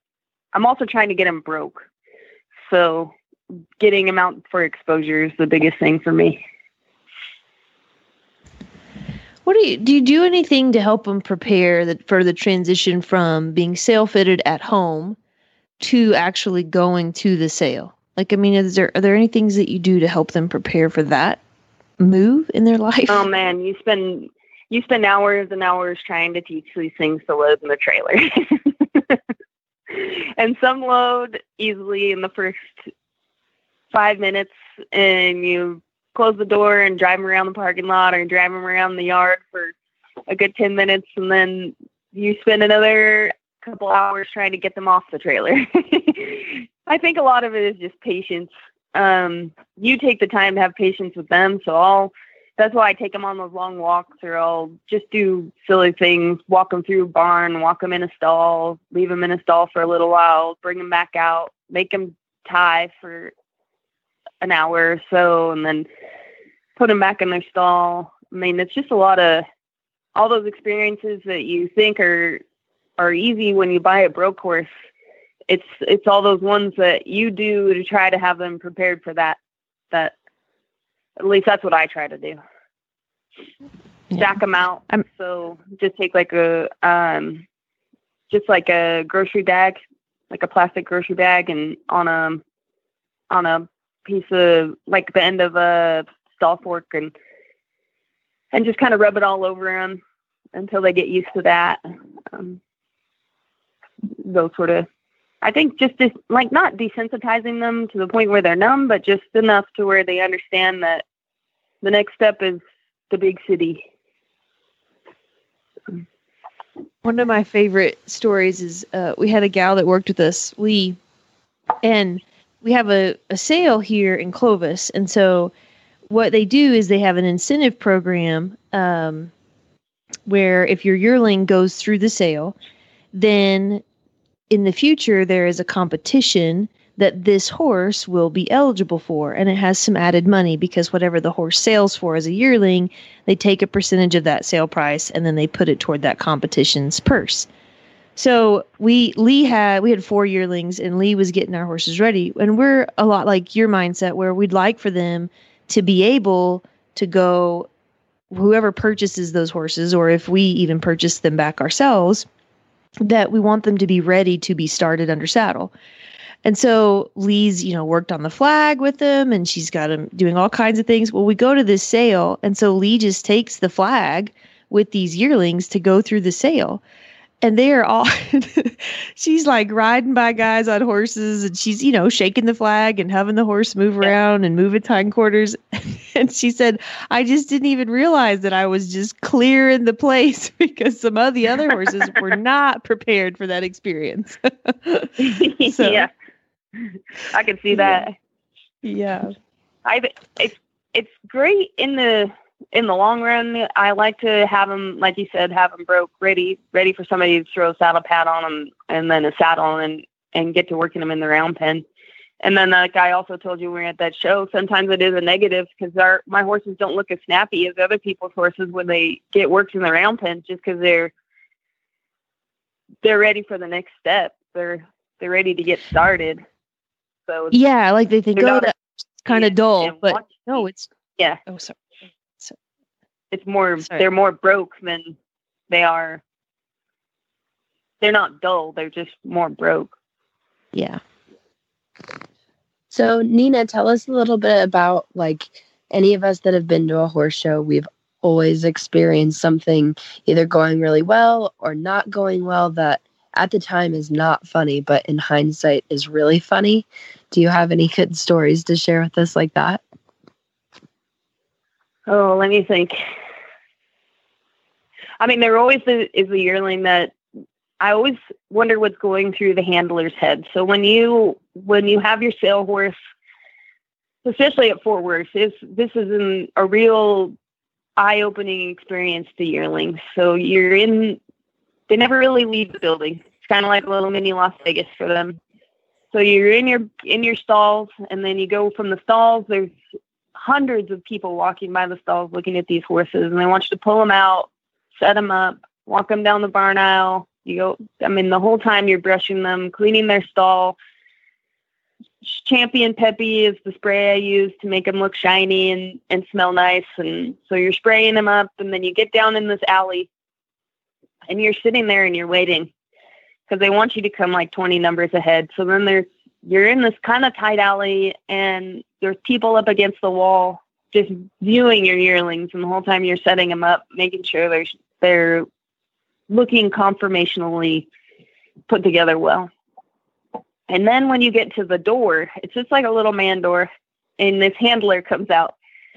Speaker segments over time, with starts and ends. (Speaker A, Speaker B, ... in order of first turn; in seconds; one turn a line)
Speaker A: 0.5-1.8
Speaker A: 2.7-3.1
Speaker A: 3.8-6.4
Speaker B: 9.4-15.2
Speaker B: 15.8-21.4
Speaker B: 22.0-23.2
Speaker A: 23.1-29.2
Speaker A: 29.9-32.9
Speaker A: 33.9-39.7
Speaker A: 40.3-63.3
Speaker A: 64.4-65.9
Speaker A: 66.8-69.5
Speaker A: 70.2-72.4
Speaker A: 73.0-74.7
Speaker A: 75.5-79.4
Speaker A: 81.2-82.4
Speaker A: 84.1-87.4
Speaker A: 88.3-89.8
Speaker A: 90.3-92.4
Speaker A: 93.3-97.1
Speaker A: 98.5-100.0
Speaker A: 100.5-101.8
Speaker A: 102.3-102.6
Speaker A: 104.2-104.9
Speaker A: 105.4-111.0
Speaker A: 111.8-113.8
Speaker B: 117.0-121.0
Speaker B: 121.8-125.5
Speaker B: 126.1-129.3
Speaker B: 130.3-132.5
Speaker B: 133.1-133.8
Speaker B: 134.5-147.5
Speaker B: 148.2-157.7
Speaker B: 158.3-162.2
Speaker B: 163.0-165.7
Speaker B: 166.4-176.8
Speaker B: 177.4-195.1
Speaker A: 195.2-196.1
Speaker B: 195.7-196.1
Speaker A: 196.8-198.1
Speaker B: 197.7-198.0
Speaker B: 198.8-199.3
Speaker A: 199.8-211.8
Speaker A: 212.4-221.1
Speaker A: 223.0-226.4
Speaker A: 227.3-227.6
Speaker B: 227.5-230.9
Speaker A: 228.3-228.7
Speaker A: 229.3-230.6
Speaker B: 231.5-231.8
Speaker A: 233.3-235.2
Speaker A: 235.7-236.2
Speaker A: 238.0-239.9
Speaker B: 240.7-241.0
Speaker C: 242.9-259.8
Speaker A: 262.1-263.0
Speaker A: 265.2-267.1
Speaker A: 267.8-272.9
Speaker A: 274.2-277.3
Speaker A: 278.0-281.2
Speaker A: 281.9-285.4
Speaker A: 286.1-289.7
Speaker A: 290.3-300.7
Speaker A: 302.2-310.1
Speaker A: 311.3-312.7
Speaker A: 313.5-325.5
Speaker A: 326.3-327.9
Speaker A: 328.7-329.5
Speaker A: 330.7-335.5